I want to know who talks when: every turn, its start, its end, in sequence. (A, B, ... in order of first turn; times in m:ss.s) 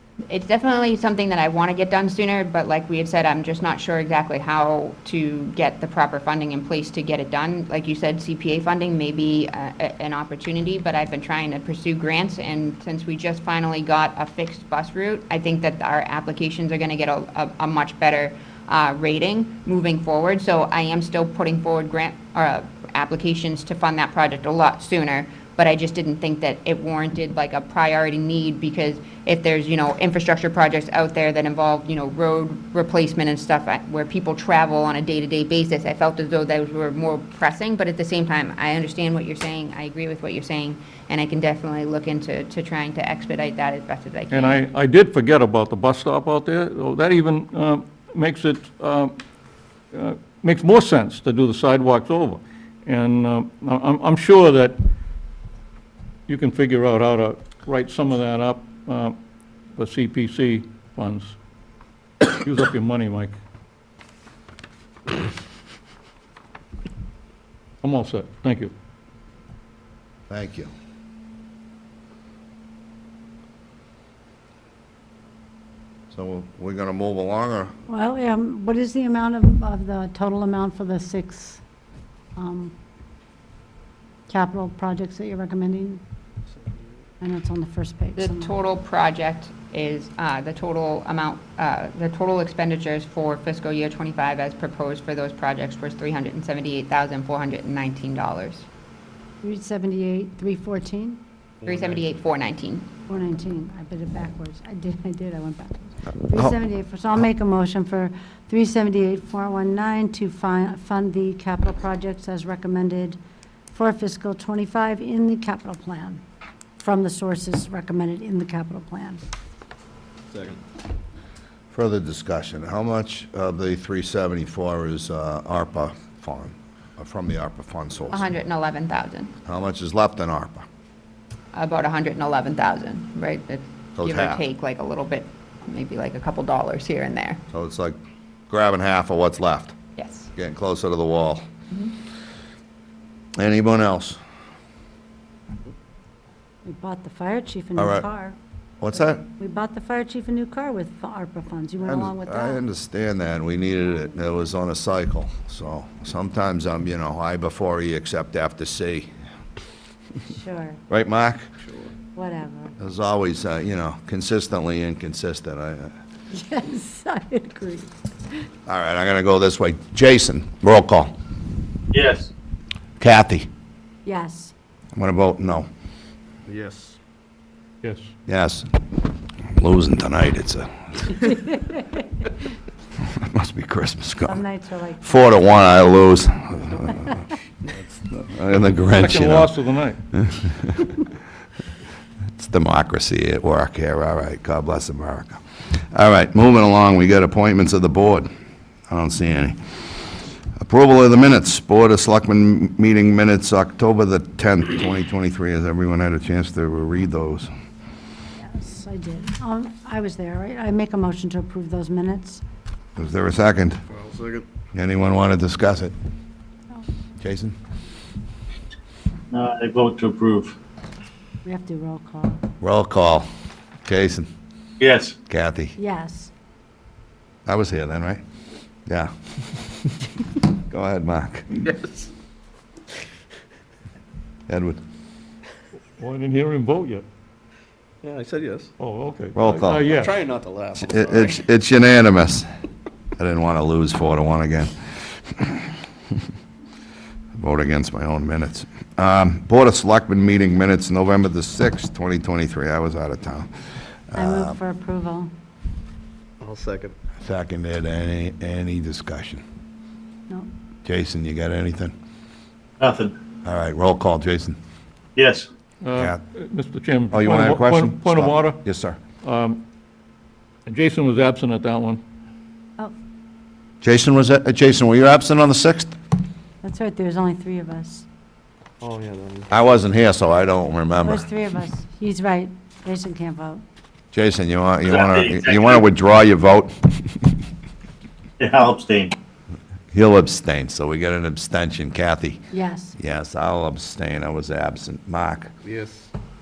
0:00.3-0:44.6 A
0:44.3-0:49.2 B
0:49.9-0:54.8 B
0:56.3-0:59.2 B
0:59.7-1:01.4 B
1:02.3-1:03.3 B
1:07.8-1:08.7 B
1:10.3-1:10.7 C
1:16.1-1:17.7 C
1:17.9-1:21.6 D
1:22.4-1:22.8 D
1:24.3-1:26.0 D
1:27.2-1:28.5 D
1:28.2-1:38.6 A
1:39.4-1:41.2 D
1:41.6-1:42.9 A
1:43.1-1:53.2 D
1:53.7-1:56.2 D
1:56.8-1:59.2 D
2:00.3-2:00.6 E
2:01.7-2:08.2 C
2:08.1-2:09.3 A
2:09.4-2:10.6 C
2:11.5-2:17.4 A
2:14.0-2:14.4 C
2:17.5-2:18.0 C
2:18.5-2:19.7 C
2:20.0-2:20.3 A
2:20.4-2:21.4 C
2:23.4-2:24.2 C
2:26.6-2:28.4 D
2:27.8-2:28.1 C
2:28.8-2:29.2 C
2:29.4-2:32.6 D
2:31.8-2:39.1 C
2:40.2-2:40.8 D
2:40.9-2:41.4 C
2:42.1-2:42.7 D
2:42.8-2:45.9 C
2:46.3-2:48.4 D
2:48.6-2:51.1 C
2:51.9-2:52.3 F
2:53.0-2:53.5 C
2:54.0-2:54.5 D
2:54.9-2:55.7 C
2:56.5-2:57.0 E
2:57.8-2:58.1 B
2:58.3-2:58.7 C
2:59.6-3:01.2 C
3:03.0-3:04.4 C
3:04.3-3:05.3 D
3:05.0-3:09.5 C
3:08.9-3:10.0 B
3:10.3-3:11.0 C
3:12.4-3:15.4 C
3:15.9-3:18.3 C
3:18.9-3:19.6 C
3:20.6-3:27.5 C
3:28.4-3:32.4 D
3:33.0-3:33.8 C
3:33.9-3:34.4 E
3:34.7-3:35.9 C
3:37.2-3:37.6 C
3:39.3-3:40.5 F
3:41.4-3:42.4 D
3:42.6-3:43.3 C
3:43.8-3:44.3 C
3:44.8-3:45.1 F
3:45.3-3:45.8 C
3:45.8-3:46.3 D
3:47.4-3:48.2 C
3:48.9-3:50.0 C
3:50.7-3:51.7 C
3:51.7-3:52.1 E
3:54.5-3:54.8 C
3:56.0-3:57.0 B
3:58.0-3:58.7 E
3:58.8-4:00.2 B
3:59.3-3:59.9 C
3:59.8-4:01.4 E
4:00.8-4:02.5 C
4:03.2-4:04.8 C
4:05.3-4:05.7 C
4:07.4-4:13.5 C
4:14.1-4:14.6 C
4:14.1-4:15.3 D
4:16.4-4:16.9 E
4:17.2-4:19.4 C
4:20.8-4:21.9 C
4:22.8-4:23.1 F
4:23.4-4:24.6 C
4:25.2-4:25.5 F
4:25.8-4:28.6 B
4:27.1-4:29.0 C
4:29.2-4:29.6 B
4:30.6-4:32.0 B
4:33.8-4:36.0 C
4:36.6-4:38.0 D
4:38.8-4:39.5 E
4:39.5-4:41.3 C
4:41.0-4:43.6 D
4:44.1-4:46.9 C
4:44.9-4:45.8 F
4:48.4-4:49.1 F
4:49.9-4:52.4 C
4:52.5-4:53.0 D
4:53.0-4:55.5 C
4:55.6-4:56.1 E